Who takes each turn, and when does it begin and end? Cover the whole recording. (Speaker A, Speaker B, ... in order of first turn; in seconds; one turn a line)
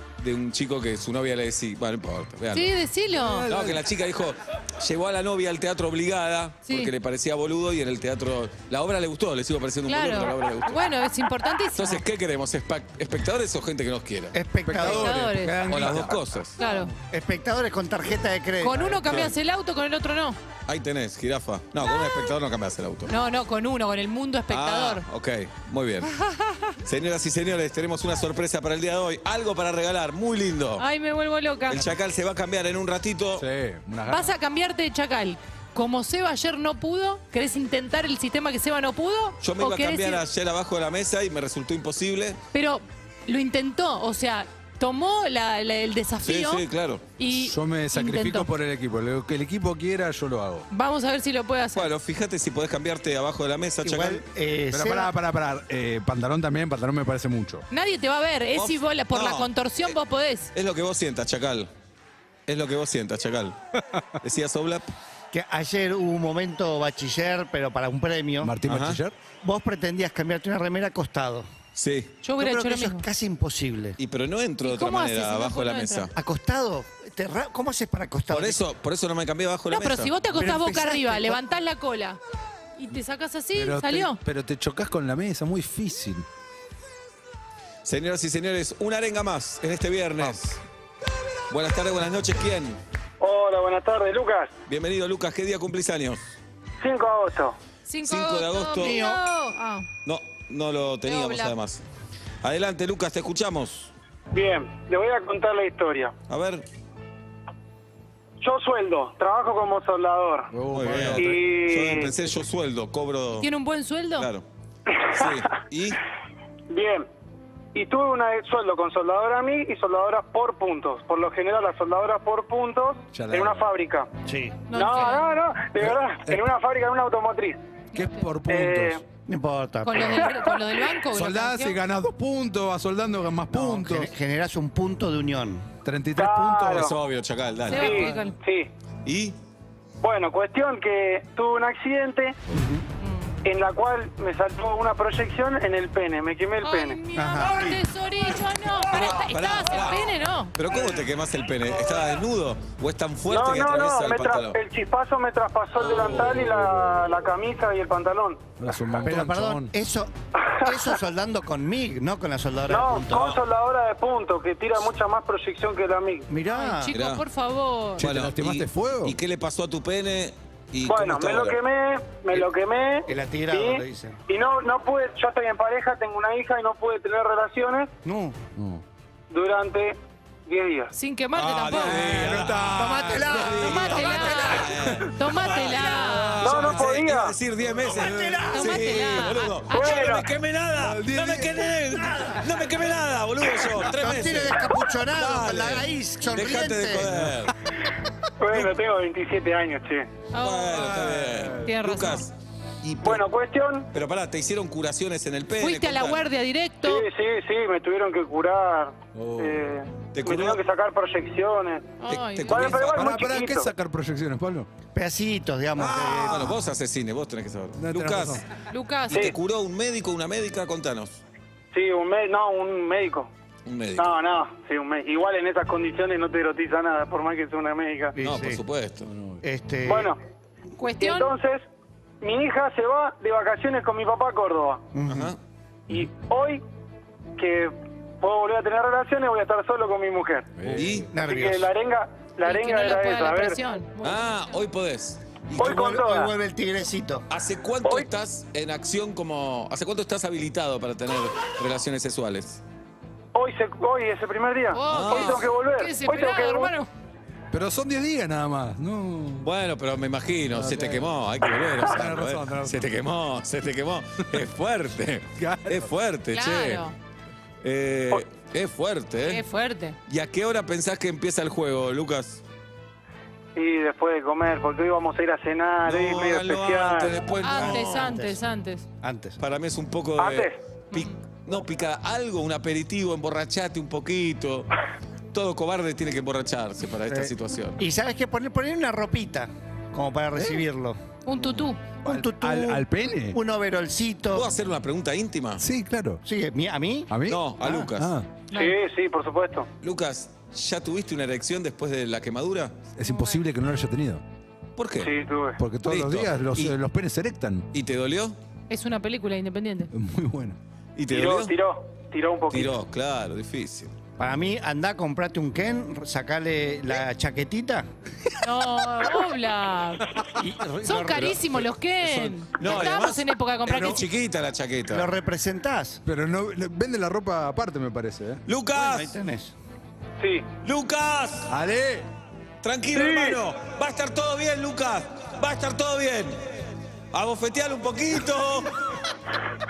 Speaker A: 0.2-2.7
Speaker B: 2.5-3.5
Speaker C: 3.1-3.8
Speaker A: 3.5-10.8
Speaker B: 6.7-6.9
Speaker B: 9.9-12.0
Speaker A: 11.7-14.4
Speaker D: 14.3-15.2
Speaker C: 14.6-16.3
Speaker B: 14.8-15.7
Speaker A: 15.7-16.6
Speaker B: 16.6-16.9
Speaker D: 17.1-19.3
Speaker B: 18.6-20.4
Speaker A: 20.7-23.1
Speaker B: 23.1-25.0
Speaker A: 24.5-26.1
Speaker B: 26.2-26.7
Speaker A: 26.8-30.9
Speaker B: 30.8-31.8
Speaker A: 31.7-33.5
Speaker C: 33.4-34.3
Speaker B: 34.1-40.2
Speaker A: 39.4-42.4
Speaker B: 42.5-46.6
Speaker A: 46.2-47.0
Speaker B: 47.2-48.5
Speaker C: 47.3-50.7
Speaker B: 50.7-51.9
Speaker A: 51.7-54.2
Speaker D: 53.8-55.1
Speaker C: 54.7-57.6
Speaker B: 57.7-60.5
Speaker A: 58.5-60.0
Speaker A: 60.5-61.7
Speaker A: 62.5-63.6
Speaker A: 64.2-64.9
Speaker D: 65.3-68.5
Speaker C: 68.4-69.2
Speaker A: 68.7-69.0
Speaker D: 69.4-71.5
Speaker A: 71.8-72.2
Speaker B: 72.2-73.0
Speaker D: 72.4-74.0
Speaker A: 74.0-76.1
Speaker B: 74.6-76.1
Speaker D: 76.2-78.6
Speaker A: 78.3-80.1
Speaker B: 79.7-82.2
Speaker D: 80.3-81.4
Speaker B: 82.8-84.2
Speaker C: 83.5-86.2
Speaker A: 87.8-90.6
Speaker A: 91.5-92.8
Speaker E: 93.2-94.5
Speaker A: 94.7-96.3
Speaker E: 96.8-97.6
Speaker B: 97.9-99.9
Speaker A: 98.0-99.0
Speaker D: 98.8-99.2
Speaker A: 100.0-101.8
Speaker B: 101.0-101.5
Speaker A: 102.4-103.9
Speaker E: 104.3-106.1
Speaker A: 106.3-106.6
Speaker E: 108.4-110.5
Speaker C: 110.5-111.4
Speaker A: 110.7-113.5
Speaker E: 111.1-112.1
Speaker B: 113.4-114.3
Speaker A: 114.2-114.4
Speaker A: 115.1-116.0
Speaker E: 116.7-117.1
Speaker E: 117.7-124.1
Speaker C: 123.1-123.6
Speaker D: 124.2-124.6
Speaker B: 124.7-125.3
Speaker E: 124.7-127.6
Speaker C: 126.2-126.5
Speaker B: 127.9-128.2
Speaker C: 127.9-129.0
Speaker E: 128.5-129.0
Speaker D: 129.3-130.3
Speaker B: 129.8-131.8
Speaker C: 131.1-134.1
Speaker D: 133.5-135.7
Speaker C: 135.8-136.9
Speaker E: 136.2-136.9
Speaker A: 136.7-138.1
Speaker B: 137.7-138.4
Speaker E: 137.7-138.7
Speaker A: 139.1-139.3
Speaker E: 140.0-142.4
Speaker D: 142.5-142.8
Speaker B: 143.0-143.3
Speaker E: 143.4-147.0
Speaker B: 146.6-150.6
Speaker D: 147.1-147.8
Speaker A: 148.9-154.6
Speaker E: 153.3-158.4
Speaker A: 155.8-156.4
Speaker C: 158.6-159.7
Speaker D: 159.0-163.4
Speaker E: 162.7-166.2
Speaker D: 166.3-166.9
Speaker B: 166.5-168.0
Speaker A: 166.9-167.2
Speaker C: 168.0-169.2
Speaker A: 168.0-171.6
Speaker E: 170.8-177.9
Speaker D: 173.1-174.2
Speaker D: 178.1-178.4
Speaker C: 178.6-178.8
Speaker E: 179.3-180.9
Speaker B: 180.9-182.3
Speaker A: 181.3-197.6
Speaker C: 181.7-185.1
Speaker D: 182.7-184.6
Speaker B: 183.5-186.5
Speaker C: 185.6-186.9
Speaker E: 186.4-187.3
Speaker C: 187.8-188.5
Speaker D: 187.9-188.8
Speaker B: 188.5-189.6
Speaker E: 189.7-190.3
Speaker C: 190.8-192.4
Speaker D: 193.9-197.1
Speaker C: 197.1-197.5
Speaker E: 198.4-200.1
Speaker B: 200.3-200.9
Speaker A: 200.4-202.3
Speaker C: 200.7-201.7
Speaker B: 201.6-202.2
Speaker E: 203.0-203.9
Speaker A: 203.9-206.2
Speaker B: 205.6-207.1
Speaker E: 206.8-211.9
Speaker C: 209.1-209.7
Speaker A: 210.1-210.6
Speaker B: 212.0-212.8
Speaker A: 212.1-213.2
Speaker E: 212.5-213.7
Speaker C: 212.9-214.7
Speaker D: 214.9-216.6
Speaker A: 215.8-218.4
Speaker C: 215.8-216.2
Speaker C: 217.8-218.4
Speaker B: 218.7-219.2
Speaker A: 219.1-221.2
Speaker E: 221.7-223.3
Speaker A: 223.7-224.1
Speaker E: 224.0-228.2
Speaker D: 228.2-228.6
Speaker A: 228.2-229.1
Speaker C: 229.1-229.4
Speaker D: 229.4-230.1
Speaker E: 229.9-230.2
Speaker B: 230.8-231.3
Speaker E: 231.0-231.6
Speaker E: 232.2-234.9
Speaker D: 234.9-235.3
Speaker A: 235.1-235.4
Speaker E: 235.9-236.6
Speaker E: 237.4-240.5
Speaker C: 240.6-241.1
Speaker A: 240.7-241.1
Speaker D: 241.1-241.7
Speaker E: 241.2-243.6
Speaker B: 242.4-244.5
Speaker A: 244.0-246.0
Speaker E: 245.6-246.3
Speaker D: 245.6-247.3
Speaker A: 247.3-252.6
Speaker E: 253.3-256.7
Speaker B: 254.7-256.9
Speaker A: 254.9-255.4
Speaker C: 257.5-259.5
Speaker A: 259.4-266.8
Speaker C: 260.5-261.1
Speaker C: 261.8-262.9
Speaker C: 265.4-265.9
Speaker B: 266.3-266.9
Speaker A: 267.6-269.4
Speaker B: 269.2-269.9
Speaker A: 270.1-272.4
Speaker E: 273.6-277.1
Speaker A: 275.9-278.1
Speaker B: 277.4-278.9
Speaker D: 277.5-278.4
Speaker D: 279.0-279.4
Speaker A: 279.4-284.7
Speaker E: 280.2-280.6
Speaker A: 285.3-287.8
Speaker D: 287.1-291.0
Speaker C: 290.4-290.6
Speaker B: 291.2-291.8
Speaker A: 291.4-291.6
Speaker D: 292.0-294.5
Speaker C: 292.1-293.4
Speaker A: 294.3-295.6
Speaker C: 295.6-296.2
Speaker D: 296.2-297.1
Speaker C: 297.1-298.3
Speaker A: 297.3-298.1
Speaker B: 298.5-298.8
Speaker E: 298.5-299.7
Speaker A: 299.8-302.7
Speaker C: 302.9-304.2
Speaker B: 303.0-303.4
Speaker A: 304.8-305.1
Speaker E: 305.0-305.6
Speaker C: 305.6-307.7
Speaker A: 305.9-306.7
Speaker A: 307.7-308.4
Speaker B: 308.7-309.9
Speaker C: 309.9-310.6
Speaker A: 310.9-311.5
Speaker E: 311.1-312.7
Speaker A: 312.5-313.9
Speaker D: 314.2-317.9
Speaker B: 318.4-320.1
Speaker D: 320.3-321.7
Speaker B: 320.8-324.0
Speaker A: 322.0-325.1
Speaker D: 323.7-324.0
Speaker D: 324.9-326.0
Speaker C: 326.1-328.4
Speaker A: 328.5-329.1
Speaker D: 328.7-329.5
Speaker E: 330.2-330.4
Speaker A: 330.6-331.5
Speaker C: 331.5-332.1
Speaker A: 332.6-336.4
Speaker E: 332.9-333.4
Speaker A: 337.1-339.0